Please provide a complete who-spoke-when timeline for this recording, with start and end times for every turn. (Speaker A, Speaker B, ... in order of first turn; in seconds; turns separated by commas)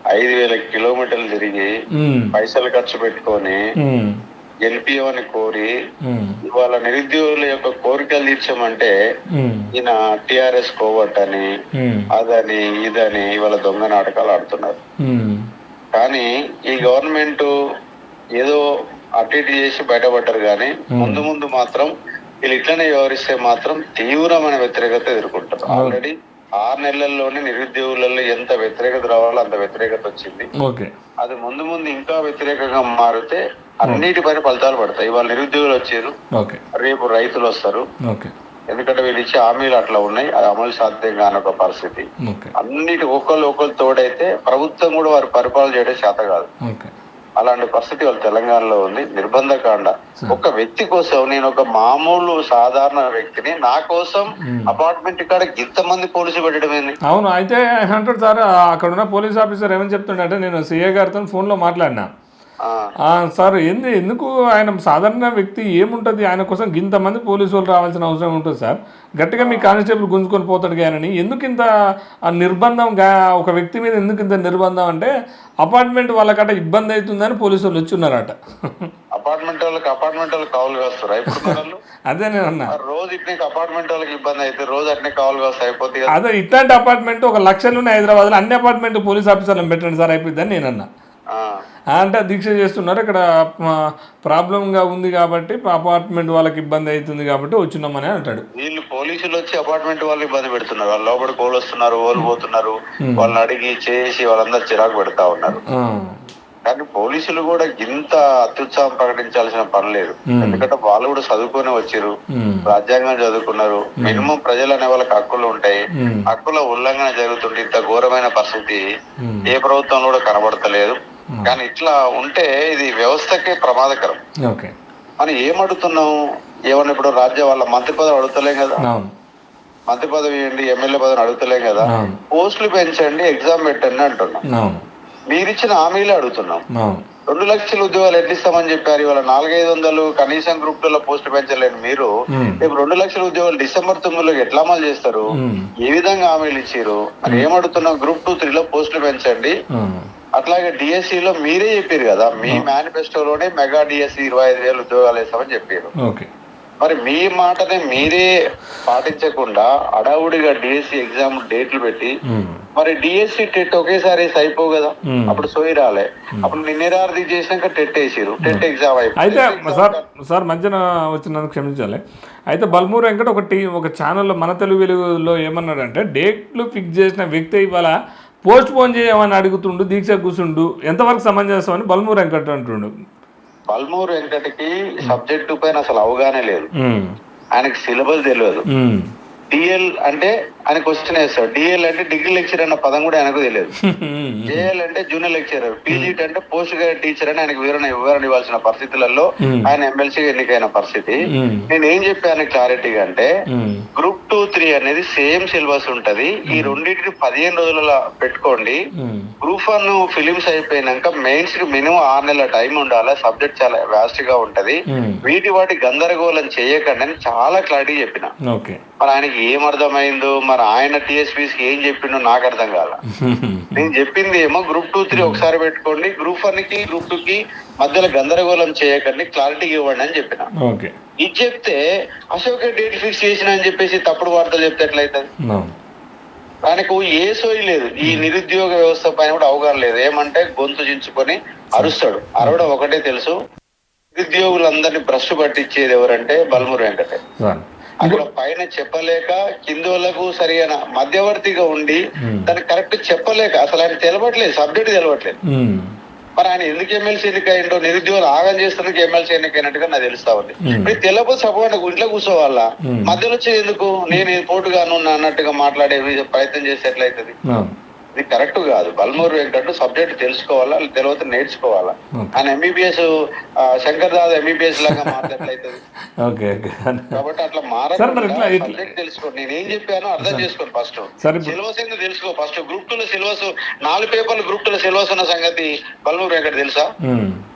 Speaker A: 0.1-1.7, Speaker B: 2.0-2.4, Speaker A: 2.3-3.6, Speaker B: 3.8-4.2, Speaker A: 4.7-5.7, Speaker B: 6.0-6.4, Speaker A: 6.5-8.9, Speaker B: 9.3-9.7, Speaker A: 9.7-11.5, Speaker B: 11.8-12.1, Speaker A: 12.1-14.8, Speaker B: 15.0-15.5, Speaker A: 15.9-17.5, Speaker A: 18.4-18.6, Speaker A: 19.2-21.9, Speaker B: 20.9-21.2, Speaker A: 22.4-30.5, Speaker B: 25.7-26.0, Speaker B: 30.6-30.9, Speaker A: 31.2-36.1, Speaker B: 36.3-36.6, Speaker A: 36.8-37.8, Speaker B: 38.1-38.3, Speaker A: 38.7-42.1, Speaker B: 42.2-42.5, Speaker A: 42.6-46.5, Speaker B: 46.6-46.9, Speaker A: 47.4-57.0, Speaker B: 54.4-54.7, Speaker B: 57.1-62.1, Speaker A: 62.6-62.9, Speaker B: 63.1-71.7, Speaker A: 69.4-69.7, Speaker B: 72.3-78.9, Speaker A: 79.2-81.8, Speaker B: 81.3-81.6, Speaker B: 82.1-82.7, Speaker A: 82.7-86.1, Speaker B: 86.1-90.9, Speaker A: 91.3-91.6, Speaker B: 91.9-98.4, Speaker A: 98.6-105.6, Speaker B: 103.0-103.3, Speaker B: 105.7-106.3, Speaker A: 106.7-112.1, Speaker B: 110.3-110.6, Speaker B: 112.3-112.7, Speaker A: 112.7-118.8, Speaker B: 114.0-114.3, Speaker B: 116.0-116.3, Speaker B: 119.2-119.5, Speaker A: 119.5-124.2, Speaker B: 124.4-124.7, Speaker A: 125.2-126.1, Speaker A: 126.7-128.8, Speaker B: 128.8-129.1, Speaker A: 129.9-134.4, Speaker B: 131.9-132.2, Speaker B: 134.5-134.9, Speaker A: 135.3-136.6, Speaker B: 136.8-137.0, Speaker A: 137.3-145.2, Speaker B: 142.3-142.7, Speaker B: 145.3-145.7, Speaker A: 145.8-149.5, Speaker B: 149.7-150.1, Speaker A: 150.4-155.9, Speaker B: 156.0-156.3, Speaker A: 156.8-158.3, Speaker A: 158.9-162.1, Speaker B: 162.3-162.6, Speaker A: 162.8-170.0, Speaker B: 165.1-165.4, Speaker B: 169.2-177.9, Speaker B: 178.4-182.9, Speaker A: 183.7-186.7, Speaker B: 186.8-187.2, Speaker A: 187.6-188.7, Speaker B: 188.7-189.1, Speaker A: 189.5-193.7, Speaker B: 193.8-194.7, Speaker A: 194.5-201.2, Speaker B: 199.4-199.7, Speaker B: 201.3-201.7, Speaker A: 201.7-203.3, Speaker B: 203.5-203.9, Speaker A: 204.0-208.8, Speaker B: 206.5-206.8, Speaker B: 209.0-209.3, Speaker A: 209.4-218.3, Speaker B: 214.9-215.2, Speaker B: 218.5-218.8, Speaker A: 219.0-223.0, Speaker B: 223.1-223.9, Speaker A: 223.8-230.5, Speaker B: 225.1-225.5, Speaker B: 230.6-230.9, Speaker A: 231.2-231.8, Speaker A: 232.3-235.3, Speaker B: 235.4-235.7, Speaker A: 236.7-243.3, Speaker B: 241.8-242.6, Speaker A: 244.2-247.2, Speaker B: 247.4-248.2, Speaker A: 248.0-255.4, Speaker B: 252.2-252.5, Speaker B: 255.5-256.0, Speaker A: 256.4-267.4, Speaker B: 260.6-261.0, Speaker B: 262.9-263.2, Speaker B: 267.5-267.8, Speaker A: 268.1-273.1, Speaker B: 272.1-272.4, Speaker A: 273.7-275.8, Speaker B: 274.8-275.3, Speaker B: 276.2-277.2, Speaker A: 277.1-286.9, Speaker B: 278.0-278.9, Speaker B: 280.2-280.5, Speaker B: 281.2-281.6, Speaker B: 287.0-287.5